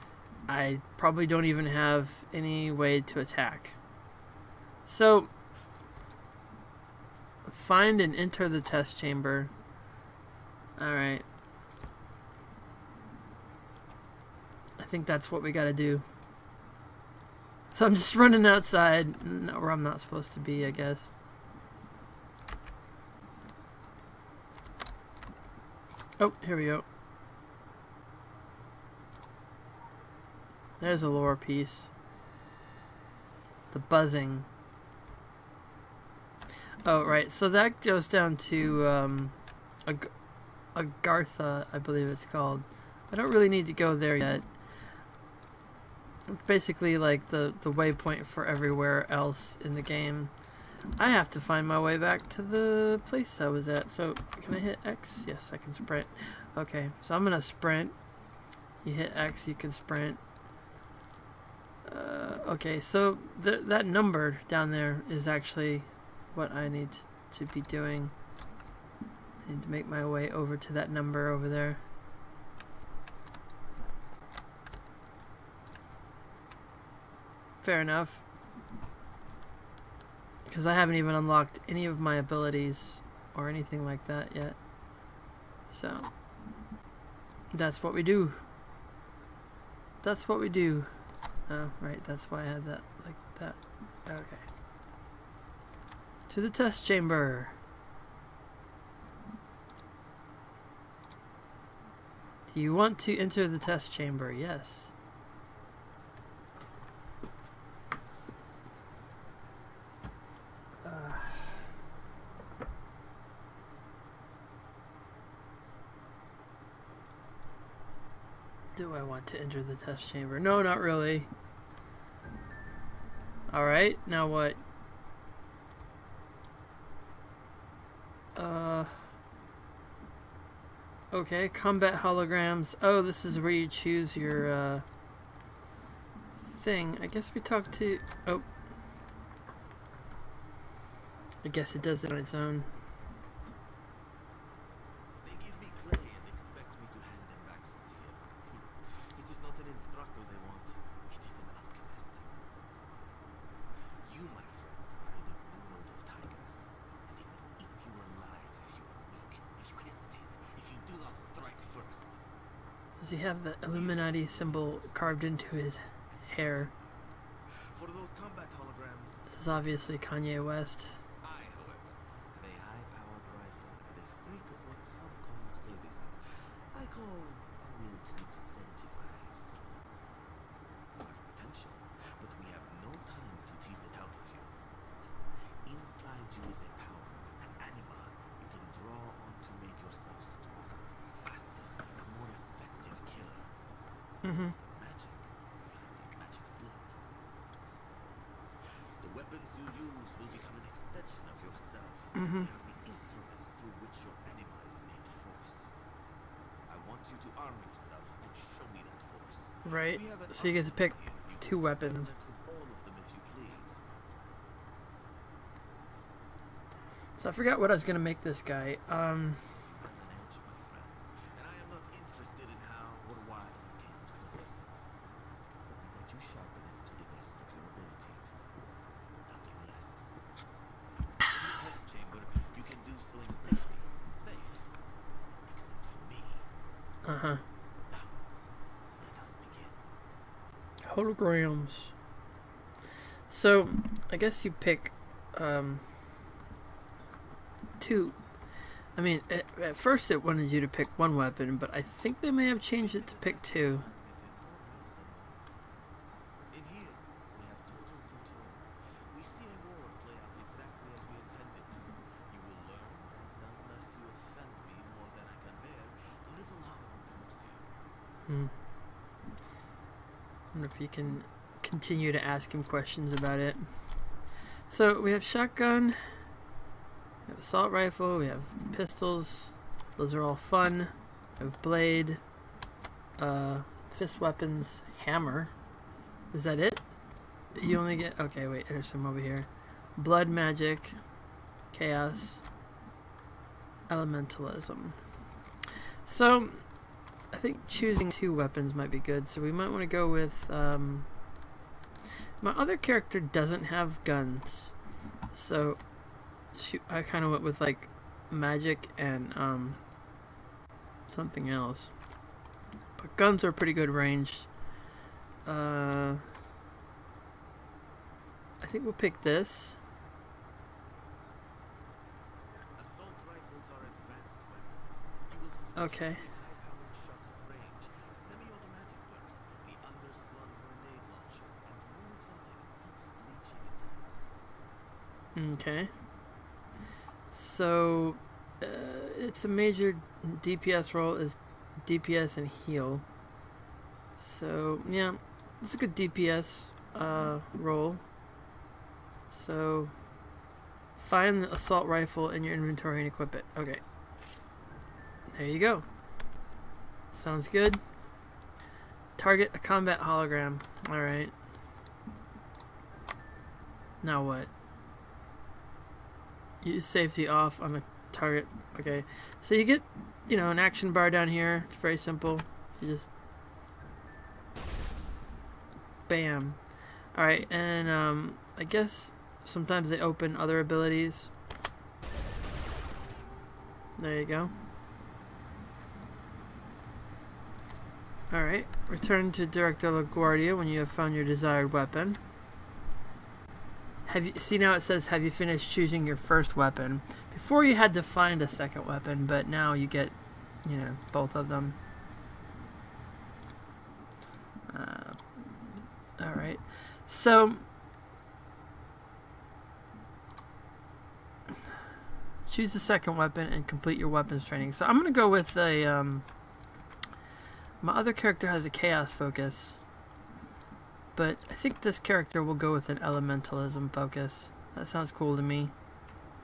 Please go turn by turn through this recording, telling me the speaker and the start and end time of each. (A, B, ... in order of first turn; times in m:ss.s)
0:00.5-0:03.8 A
0:04.8-0:05.3 A
0:07.4-0:09.5 A
0:10.8-0:11.2 A
0:14.8-0:16.0 A
0:17.7-0:21.1 A
0:26.2-0:26.8 A
0:30.8-0:31.9 A
0:33.7-0:34.4 A
0:36.8-0:40.1 A
0:40.7-0:44.5 A
0:46.3-0:50.3 A
0:51.0-0:58.0 A
0:58.8-1:00.2 A
1:01.8-1:08.1 A
1:09.4-1:11.8 A
1:17.6-1:18.2 A
1:20.4-1:24.6 A
1:25.7-1:26.1 A
1:27.5-1:28.4 A
1:30.0-1:30.9 A
1:31.4-1:34.4 A
1:36.3-1:37.6 A
1:42.5-1:44.9 A
1:50.8-1:51.7 A
1:58.7-2:01.3 A
2:03.5-2:04.6 A
2:08.3-2:09.0 A
2:11.1-2:14.8 A
2:16.4-2:18.4 A
2:21.4-2:22.7 A
2:25.2-2:32.3 B
2:34.0-2:42.2 B
2:43.0-2:46.7 A
2:43.7-2:50.0 B
2:49.3-2:51.0 A
2:51.2-2:59.6 B
3:00.9-3:04.5 B
3:05.6-3:13.5 B
3:14.2-3:14.5 A
3:14.2-3:17.0 B
3:18.6-3:25.7 B
3:22.1-3:22.5 A
3:26.7-3:33.8 B
3:29.6-3:32.1 A
3:37.2-3:39.5 A
3:39.5-3:44.8 B
3:45.6-3:48.4 B
3:49.2-3:50.1 B
3:51.2-3:54.7 B
3:55.4-3:56.5 B
3:57.0-3:57.4 A
3:57.9-3:58.2 B
3:59.0-3:59.8 B
4:00.8-4:01.9 A
4:03.3-4:05.9 A
4:07.8-4:08.2 A
4:09.0-4:13.8 A
4:12.7-4:15.8 B
4:16.5-4:27.7 B
4:28.3-4:28.5 A
4:30.5-4:33.9 A
4:34.7-4:36.0 A
4:37.3-4:42.2 A
4:43.2-4:45.5 A
4:46.3-4:46.9 A
4:47.5-4:51.0 A
4:51.7-4:52.4 A
4:53.9-4:55.1 A
4:56.0-4:56.7 A
4:57.3-5:01.1 A
5:02.4-5:04.8 A
5:05.3-5:05.8 A
5:06.5-5:09.8 A
5:11.1-5:11.9 A
5:13.0-5:14.5 A
5:15.4-5:16.2 A
5:18.6-5:19.8 A
5:22.8-5:34.3 B
5:25.8-5:26.2 A
5:35.3-5:35.9 A
5:37.3-5:43.0 A
5:44.2-5:48.0 A
5:49.3-5:49.9 A
5:51.0-5:53.8 A
5:55.3-5:55.8 A
5:57.1-5:57.8 A
5:59.2-6:01.3 A
6:04.0-6:04.5 A
6:06.6-6:13.1 A
6:16.1-6:21.3 A
6:24.0-6:24.5 A
6:28.3-6:32.2 A
6:34.0-6:41.8 A
6:44.7-6:47.6 A
6:52.4-6:56.2 A
6:57.8-6:59.8 A
7:01.1-7:05.7 A